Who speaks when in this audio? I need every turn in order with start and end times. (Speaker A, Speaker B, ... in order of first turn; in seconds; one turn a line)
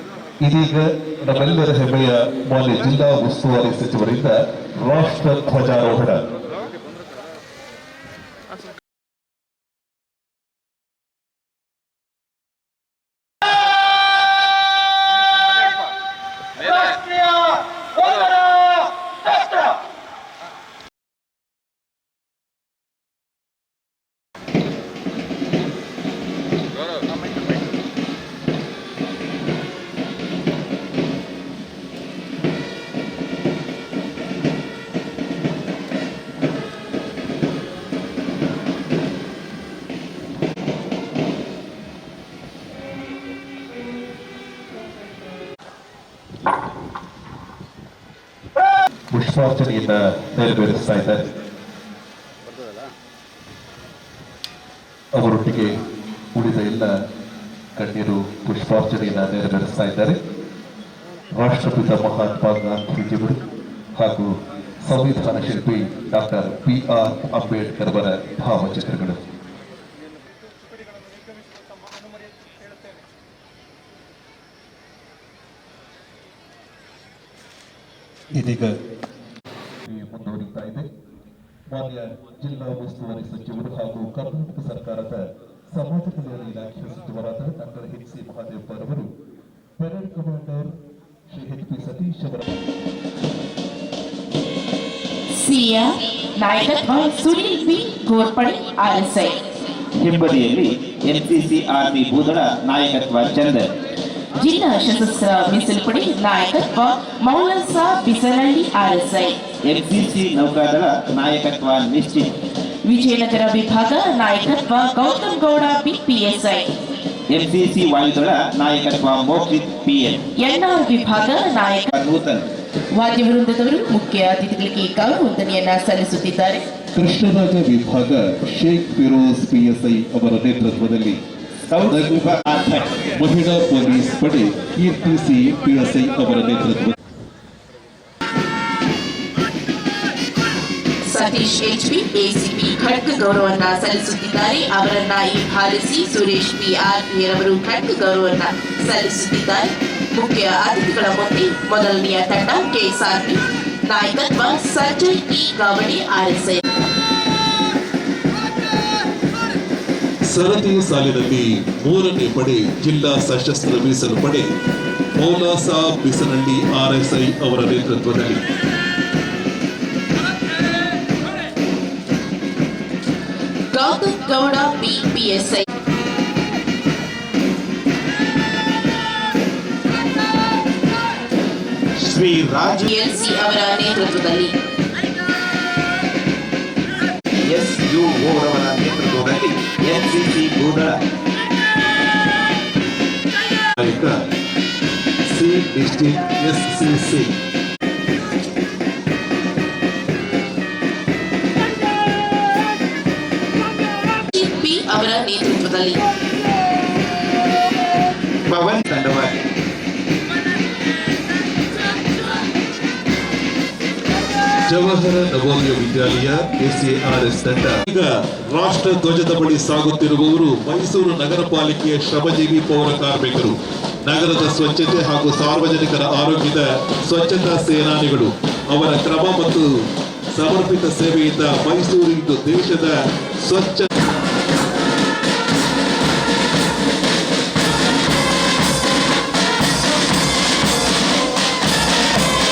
Speaker A: 0.4-6.2
Speaker A: 49.1-51.2
Speaker A: 55.1-55.8
Speaker A: 56.3-56.9
Speaker A: 57.8-60.2
Speaker A: 61.3-63.4
Speaker A: 64.0-69.2
Speaker A: 78.3-78.8
Speaker A: 79.8-80.9
Speaker A: 81.7-89.1
Speaker A: 89.8-90.7
Speaker A: 91.3-92.6
Speaker B: 95.3-99.4
Speaker C: 100.0-103.7
Speaker B: 104.3-109.4
Speaker C: 109.6-112.4
Speaker B: 112.8-116.8
Speaker C: 117.3-120.2
Speaker B: 120.3-121.9
Speaker C: 121.9-122.5
Speaker B: 122.9-126.7
Speaker A: 126.9-131.2
Speaker C: 131.7-132.8
Speaker A: 131.8-136.9
Speaker B: 141.1-156.6
Speaker A: 160.3-164.5
Speaker A: 165.2-168.4
Speaker B: 173.7-175.6
Speaker C: 182.0-182.9
Speaker B: 182.9-184.5
Speaker C: 187.4-191.0
Speaker A: 193.8-194.2
Speaker A: 195.2-197.3
Speaker B: 204.3-206.0
Speaker C: 208.5-209.4
Speaker A: 214.7-229.7
Speaker A: 230.3-233.9